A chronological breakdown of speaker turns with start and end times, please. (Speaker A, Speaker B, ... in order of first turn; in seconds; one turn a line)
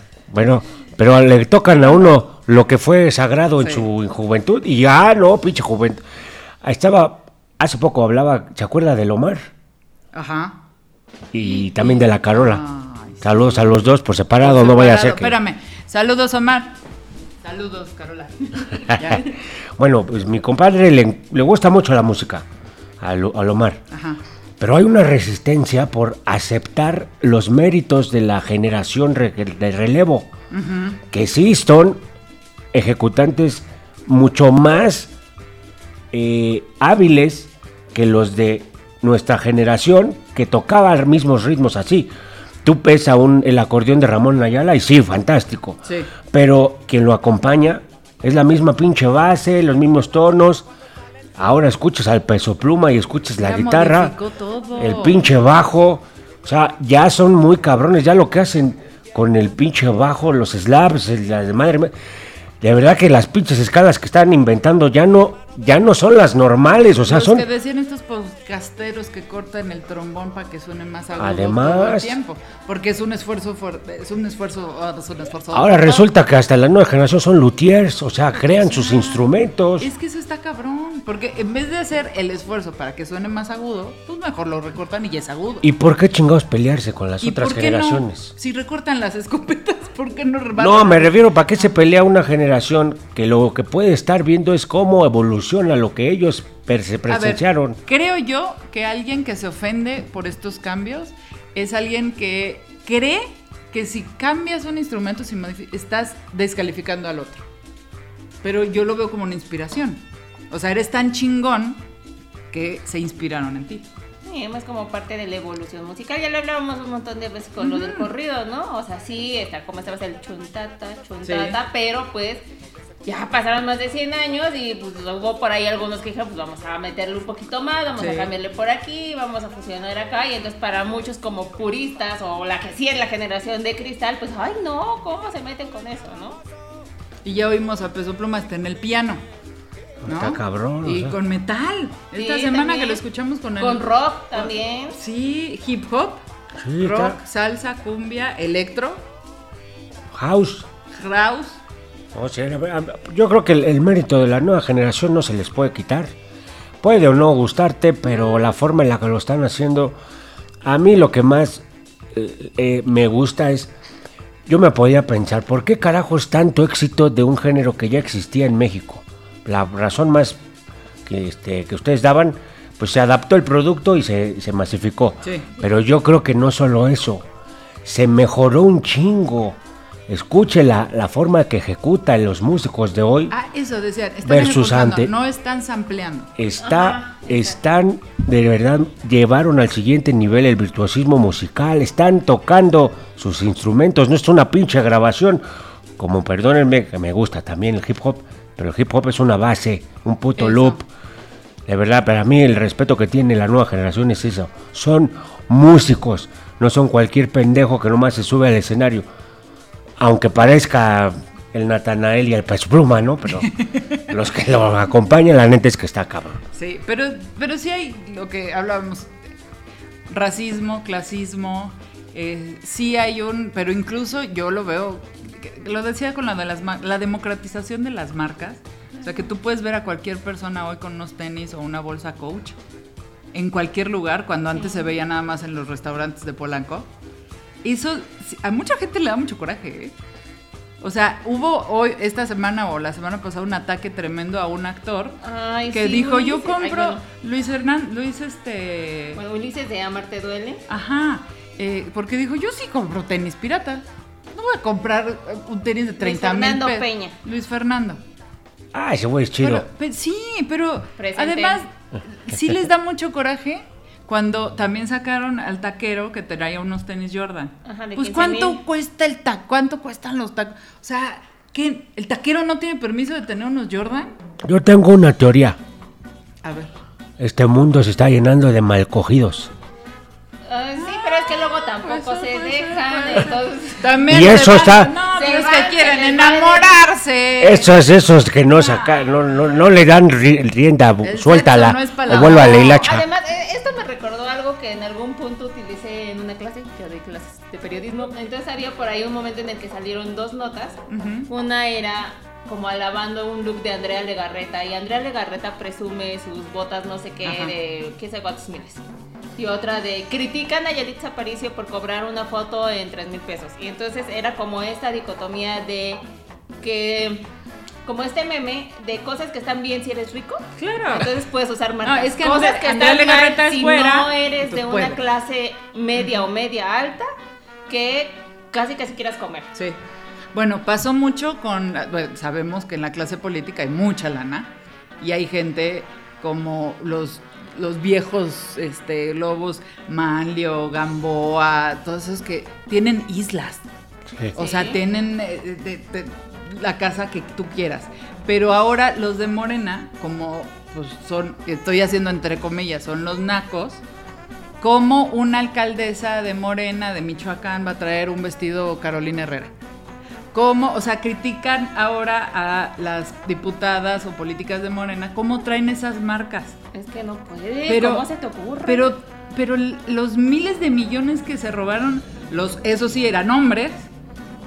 Speaker A: 0.3-6.0
Speaker B: 3.6-3.9
Speaker A: 6.6-9.5
Speaker B: 10.1-10.6
Speaker A: 11.3-12.6
Speaker B: 11.4-13.7
Speaker A: 13.2-15.4
Speaker B: 14.4-16.8
Speaker B: 17.4-19.3
Speaker A: 18.9-22.5
Speaker A: 23.0-23.8
Speaker B: 23.9-24.2
Speaker A: 24.6-30.3
Speaker B: 30.5-31.0
Speaker A: 31.1-32.0
Speaker A: 32.7-35.1
Speaker A: 36.1-42.1
Speaker A: 42.6-45.8
Speaker B: 45.9-46.1
Speaker A: 46.3-50.7
Speaker A: 51.4-54.1
Speaker B: 53.4-55.3
Speaker A: 54.8-61.9
Speaker A: 62.6-67.5
Speaker B: 67.0-76.1
Speaker A: 71.2-72.2
Speaker A: 75.5-79.9
Speaker B: 78.4-79.3
Speaker B: 79.8-85.7
Speaker A: 85.6-88.3
Speaker B: 87.2-91.7
Speaker A: 90.6-97.8
Speaker B: 97.1-107.4
Speaker B: 108.4-111.8
Speaker B: 112.5-113.9
Speaker C: 114.2-122.4
Speaker B: 117.6-118.1
Speaker B: 121.2-121.6
Speaker C: 123.0-136.4
Speaker B: 128.0-128.3
Speaker B: 137.2-139.2
Speaker A: 140.0-141.2
Speaker B: 140.1-146.2
Speaker C: 142.1-143.0
Speaker C: 143.6-145.0
Speaker A: 146.6-147.2
Speaker B: 146.8-149.0
Speaker A: 150.1-150.7
Speaker B: 150.9-151.6
Speaker A: 152.1-156.1
Speaker A: 156.8-160.0
Speaker A: 160.6-163.7
Speaker A: 164.5-170.4
Speaker A: 171.1-177.3
Speaker A: 177.8-183.3
Speaker B: 183.3-186.3
Speaker A: 184.2-185.1
Speaker A: 186.4-195.4
Speaker C: 186.6-187.6
Speaker A: 196.0-200.8
Speaker B: 200.4-200.8
Speaker A: 201.7-209.1
Speaker A: 210.0-213.5
Speaker B: 213.5-214.0
Speaker A: 214.1-216.4
Speaker B: 216.5-219.1
Speaker B: 220.1-232.6
Speaker B: 233.3-236.9
Speaker C: 234.6-234.9
Speaker B: 237.6-239.9
Speaker B: 240.8-245.2
Speaker C: 245.2-247.0
Speaker B: 245.7-249.2
Speaker C: 249.2-250.7
Speaker B: 250.7-258.0
Speaker C: 256.0-257.2
Speaker A: 258.7-259.7
Speaker B: 259.4-274.1
Speaker C: 261.0-261.6
Speaker C: 267.6-268.6
Speaker A: 274.4-275.6
Speaker B: 276.4-276.7
Speaker A: 277.2-279.5
Speaker C: 280.5-284.1
Speaker B: 280.8-287.8
Speaker A: 284.1-284.9
Speaker C: 285.1-286.8
Speaker A: 287.4-293.1
Speaker B: 288.6-289.1
Speaker B: 291.0-292.9
Speaker C: 292.1-308.9
Speaker B: 300.9-301.3
Speaker B: 307.2-307.5
Speaker C: 309.4-316.0
Speaker C: 316.6-317.3
Speaker C: 317.9-327.1
Speaker B: 320.6-321.1
Speaker B: 321.8-325.0
Speaker C: 327.7-329.5
Speaker B: 330.3-343.6
Speaker A: 344.1-344.4
Speaker C: 344.4-344.8
Speaker B: 344.4-353.8
Speaker B: 354.6-359.5
Speaker B: 360.3-366.6
Speaker C: 366.7-368.9
Speaker B: 367.7-368.1
Speaker B: 368.6-373.9